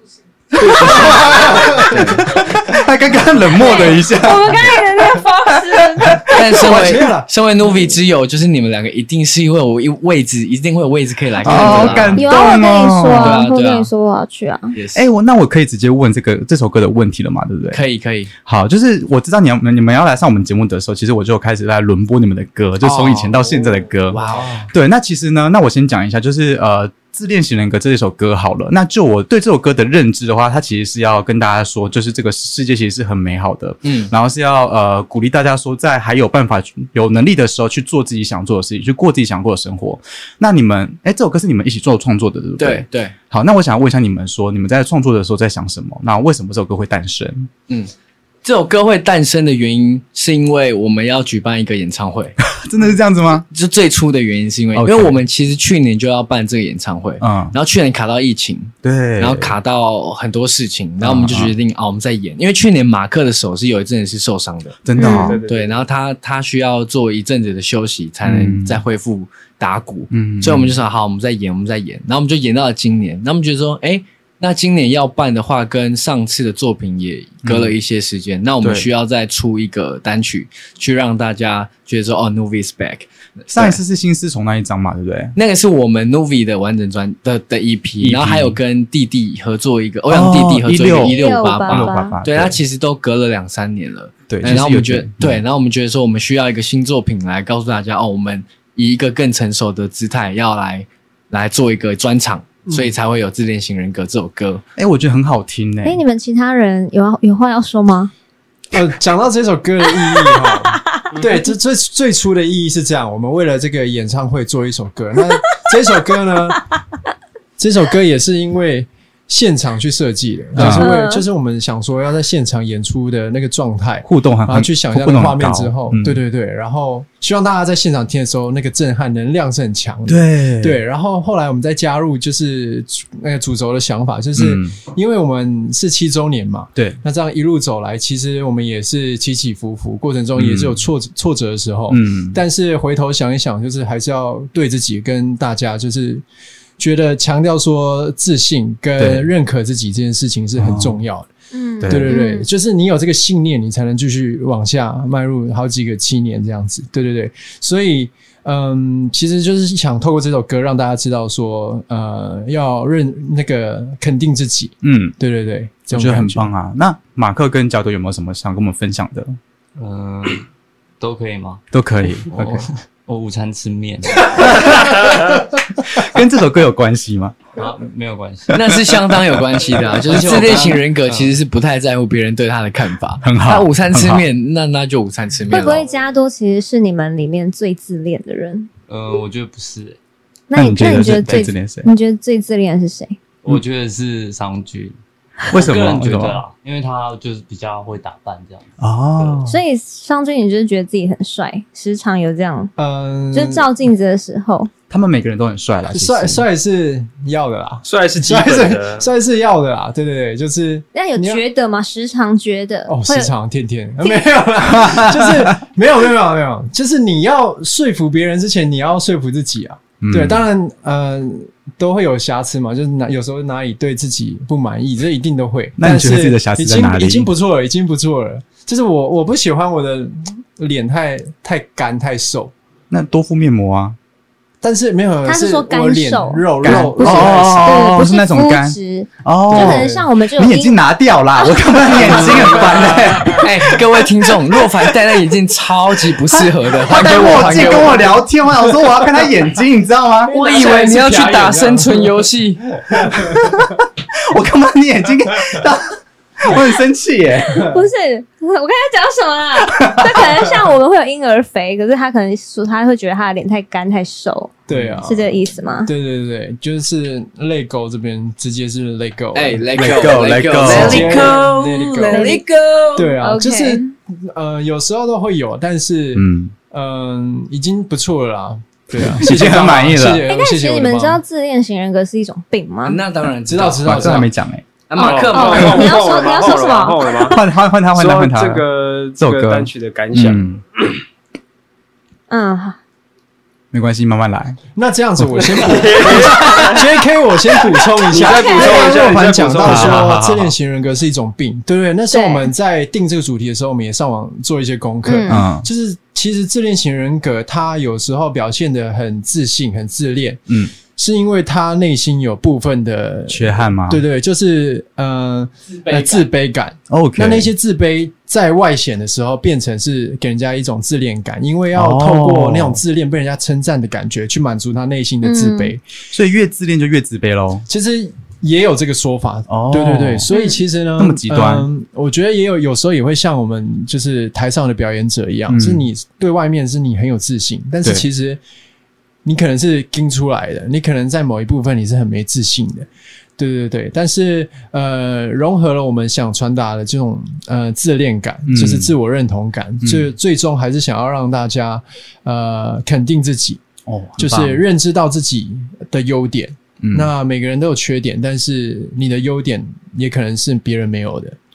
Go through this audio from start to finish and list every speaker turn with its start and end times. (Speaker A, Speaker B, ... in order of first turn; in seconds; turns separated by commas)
Speaker A: 0.6-2.3, Speaker B: 0.8-4.8, Speaker C: 3.5-6.5, Speaker A: 6.3-12.3, Speaker D: 6.5-7.3, Speaker B: 11.4-13.4, Speaker D: 11.5-12.1, Speaker C: 12.1-14.7, Speaker A: 13.1-13.9, Speaker A: 14.7-15.1, Speaker B: 14.9-17.8, Speaker A: 17.7-18.3, Speaker B: 18.4-47.5, Speaker A: 22.8-23.4, Speaker A: 24.1-24.7, Speaker A: 33.8-34.1, Speaker A: 42.6-43.1, Speaker A: 48.4-52.4, Speaker B: 52.4-53.4, Speaker A: 53.5-64.9, Speaker B: 54.7-55.2, Speaker B: 57.2-57.5, Speaker B: 58.8-59.5, Speaker B: 61.0-61.5, Speaker B: 64.8-65.4, Speaker C: 65.0-65.4, Speaker E: 65.0-65.9, Speaker A: 65.4-83.8, Speaker B: 68.2-68.8, Speaker B: 70.1-70.8, Speaker B: 77.4-77.7, Speaker B: 78.6-78.9, Speaker B: 83.5-85.3, Speaker A: 85.3-104.6, Speaker B: 88.0-88.6, Speaker B: 90.1-92.6, Speaker C: 91.0-92.2, Speaker B: 94.3-95.4, Speaker B: 104.8-106.0, Speaker C: 105.8-108.1, Speaker D: 108.7-116.8, Speaker D: 117.6-146.2, Speaker B: 120.5-120.9, Speaker C: 120.6-121.2, Speaker B: 124.0-126.2, Speaker B: 130.1-130.8, Speaker B: 134.3-134.8, Speaker B: 140.3-140.8, Speaker B: 141.9-142.4, Speaker D: 146.8-151.3, Speaker B: 149.0-149.3, Speaker B: 150.6-151.0, Speaker C: 151.5-152.5, Speaker B: 151.8-152.2, Speaker D: 151.9-166.5, Speaker B: 164.8-165.2, Speaker B: 165.9-169.3, Speaker F: 169.8-170.4, Speaker F: 171.0-171.6, Speaker B: 171.7-172.7, Speaker F: 172.2-174.7, Speaker B: 174.3-177.5, Speaker F: 177.6-178.7, Speaker A: 178.5-185.9, Speaker F: 179.7-181.3, Speaker B: 183.2-184.2, Speaker C: 185.5-188.7, Speaker F: 188.9-190.0, Speaker C: 190.5-193.2, Speaker B: 190.5-191.9, Speaker F: 190.9-191.6, Speaker F: 193.4-195.0, Speaker B: 195.5-196.4, Speaker F: 195.5-199.4, Speaker B: 198.8-199.6, Speaker C: 199.4-202.7, Speaker D: 202.8-203.7, Speaker C: 203.3-204.7, Speaker B: 204.9-206.5, Speaker D: 205.9-211.4, Speaker E: 207.8-209.1, Speaker C: 210.9-213.3, Speaker D: 212.9-232.5, Speaker B: 214.8-215.5, Speaker B: 220.0-220.4, Speaker B: 225.8-227.3, Speaker B: 232.9-233.9, Speaker D: 234.6-237.7, Speaker C: 235.2-240.8, Speaker B: 236.6-243.5, Speaker D: 239.5-240.1, Speaker C: 241.4-241.8, Speaker A: 241.9-248.1, Speaker D: 242.1-243.4, Speaker B: 246.3-250.3, Speaker D: 250.2-252.1, Speaker A: 250.3-253.0, Speaker B: 254.3-257.7, Speaker C: 257.6-264.5, Speaker B: 259.7-260.4, Speaker D: 264.7-265.3, Speaker C: 265.0-265.9, Speaker D: 265.9-272.4, Speaker A: 269.3-273.2, Speaker B: 269.7-271.3, Speaker E: 270.9-271.3, Speaker C: 272.0-272.4, Speaker D: 272.9-281.2, Speaker C: 273.2-273.9, Speaker B: 276.1-276.5, Speaker B: 279.0-280.3, Speaker C: 280.3-283.0, Speaker A: 282.8-284.3, Speaker D: 283.5-284.3, Speaker B: 283.8-284.6, Speaker A: 284.9-286.0, Speaker E: 284.9-287.4, Speaker C: 285.3-287.4, Speaker B: 287.3-288.6, Speaker E: 287.9-290.5, Speaker B: 289.2-290.6, Speaker C: 292.3-292.8, Speaker B: 293.7-294.6, Speaker D: 294.7-325.9, Speaker B: 295.2-295.8, Speaker E: 295.4-297.0, Speaker E: 297.7-300.2, Speaker C: 298.3-298.9, Speaker A: 298.8-299.2, Speaker B: 299.4-300.5, Speaker C: 302.1-302.5, Speaker C: 305.0-305.4, Speaker B: 305.3-305.7, Speaker B: 313.3-314.0, Speaker B: 316.9-317.5, Speaker B: 321.7-322.8, Speaker C: 325.2-325.7, Speaker B: 326.1-327.6, Speaker D: 327.7-338.4, Speaker B: 329.5-330.3, Speaker C: 330.3-330.6, Speaker B: 331.0-331.7, Speaker B: 335.5-335.9, Speaker D: 339.2-342.9, Speaker D: 343.4-353.6, Speaker B: 348.4-348.9, Speaker B: 349.8-350.1, Speaker B: 353.9-354.6, Speaker D: 354.2-361.4, Speaker B: 356.8-357.1